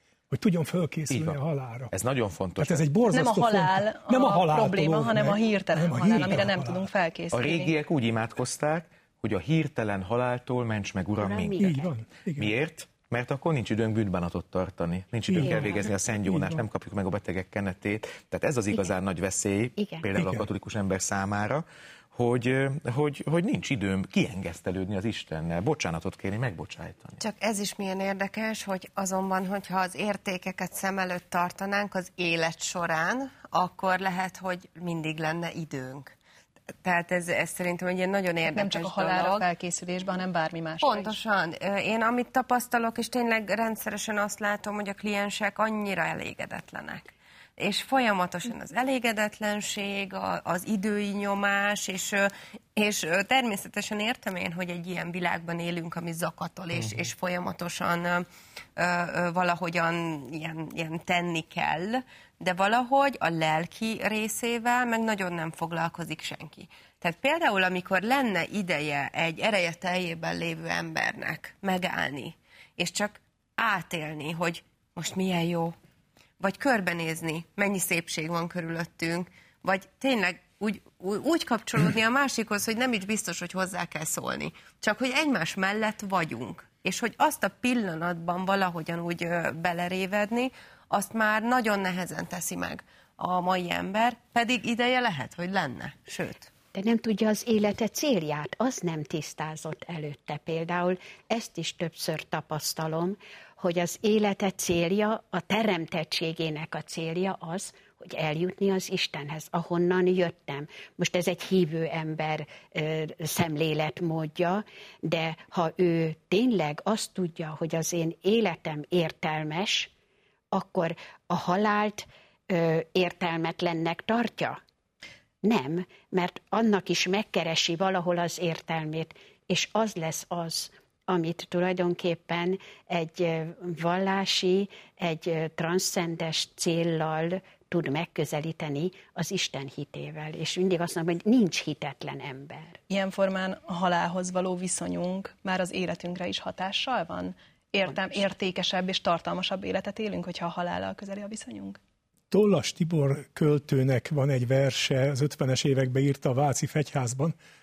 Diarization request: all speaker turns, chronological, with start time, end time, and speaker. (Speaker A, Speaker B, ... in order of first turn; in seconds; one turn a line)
Speaker A: 0.3-1.9
Speaker B: 1.1-1.4
Speaker B: 1.9-2.9
Speaker A: 2.6-6.9
Speaker C: 3.1-7.7
Speaker B: 7.3-11.7
Speaker D: 11.2-11.9
Speaker A: 11.6-12.5
Speaker B: 12.4-27.2
Speaker A: 15.3-16.6
Speaker D: 15.5-15.9
Speaker D: 19.8-20.1
Speaker A: 20.2-20.5
Speaker E: 27.2-36.1
Speaker E: 36.8-39.5
Speaker C: 38.5-41.1
Speaker E: 40.8-75.8
Speaker E: 76.4-96.5
Speaker D: 96.7-119.9
Speaker D: 120.5-124.6
Speaker D: 125.4-142.8
Speaker C: 142.9-151.8
Speaker A: 152.3-157.3